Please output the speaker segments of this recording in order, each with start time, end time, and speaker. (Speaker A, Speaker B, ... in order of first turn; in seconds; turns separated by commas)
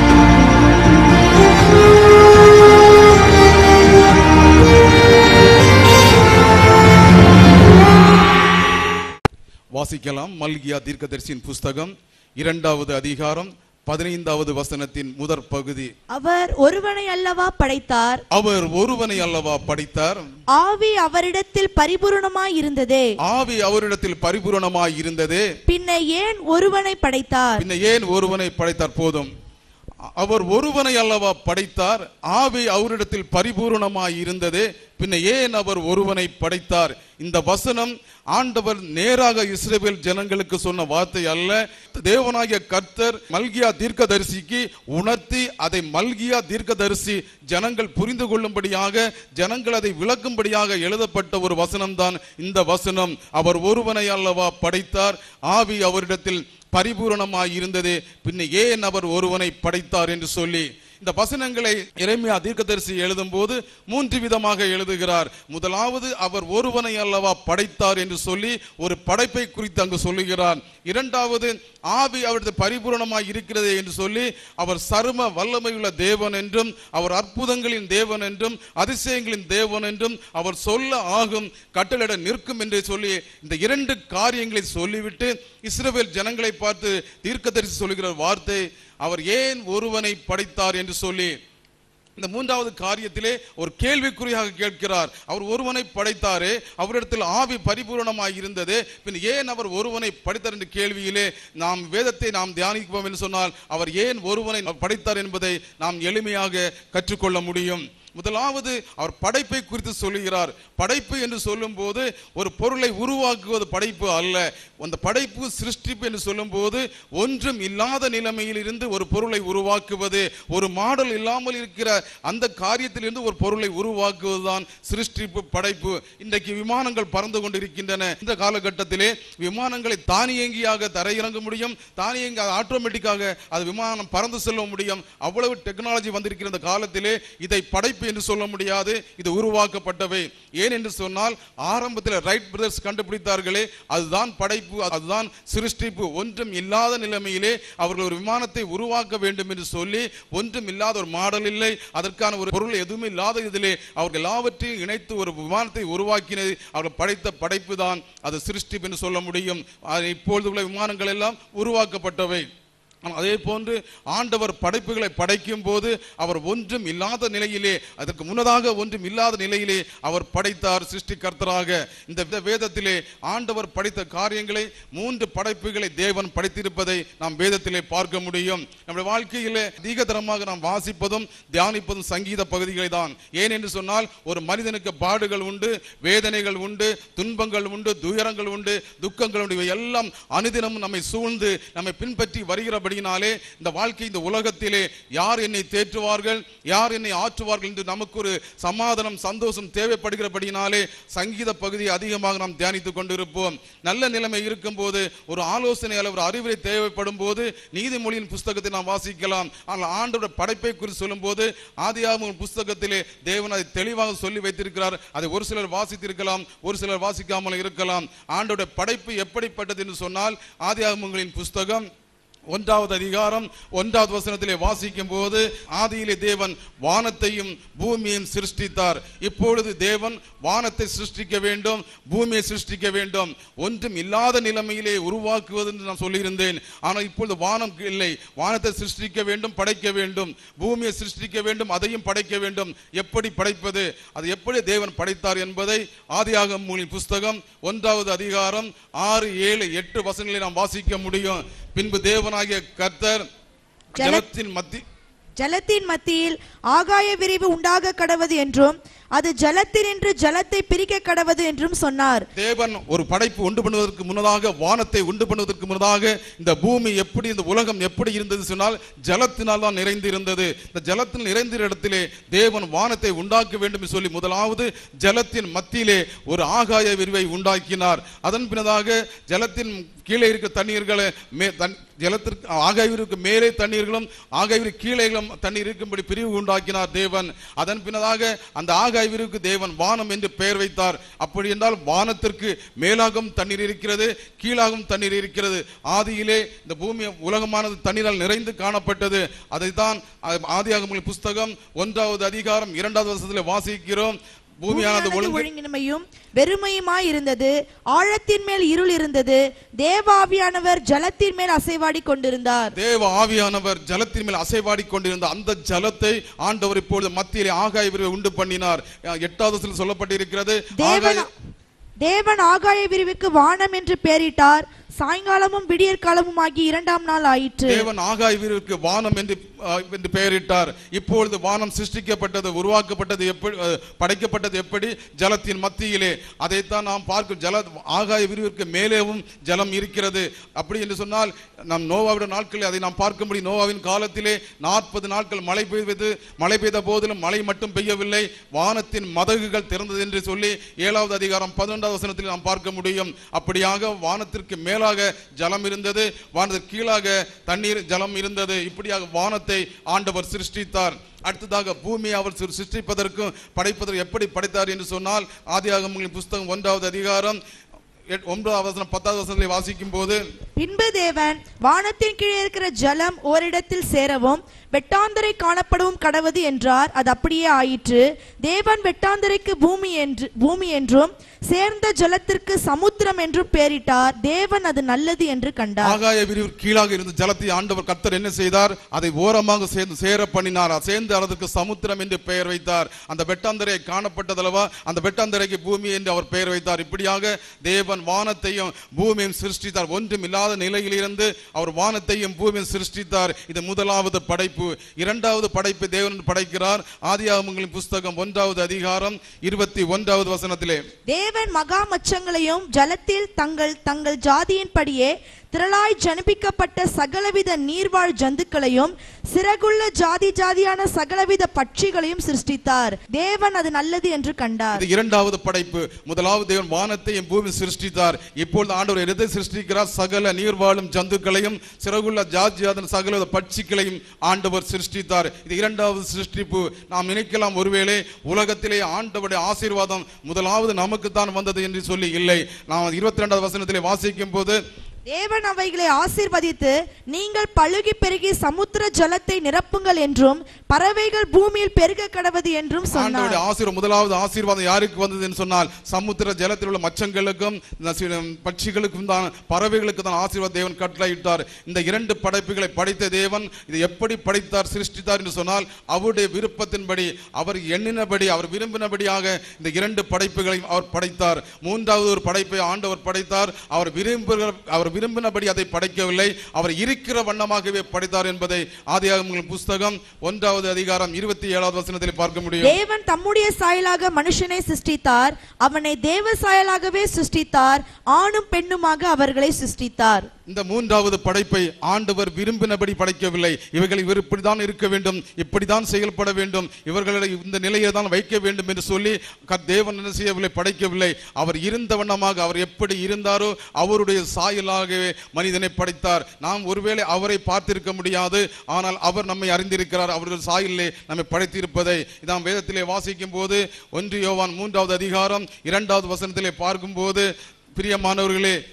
Speaker A: 9.7-15.9, Speaker B: 16.1-18.2, Speaker A: 18.3-20.2, Speaker B: 20.6-23.1, Speaker A: 23.2-25.5, Speaker B: 25.7-27.6, Speaker A: 27.6-29.3, Speaker A: 30.2-91.3, Speaker A: 92.2-162.5, Speaker A: 163.1-221.9, Speaker A: 222.5-253.2, Speaker B: 254.0-254.2, Speaker A: 254.0-254.8, Speaker B: 255.4-262.3, Speaker A: 262.4-305.4, Speaker B: 304.7-312.8, Speaker A: 312.8-321.3, Speaker B: 320.8-321.3, Speaker B: 322.0-327.9, Speaker A: 327.7-367.4, Speaker A: 368.1-370.2, Speaker B: 370.6-386.0, Speaker A: 385.8-410.8, Speaker B: 411.1-424.8, Speaker A: 424.7-444.6, Speaker B: 445.1-453.4, Speaker A: 452.9-482.8, Speaker B: 482.6-490.3, Speaker A: 490.5-518.6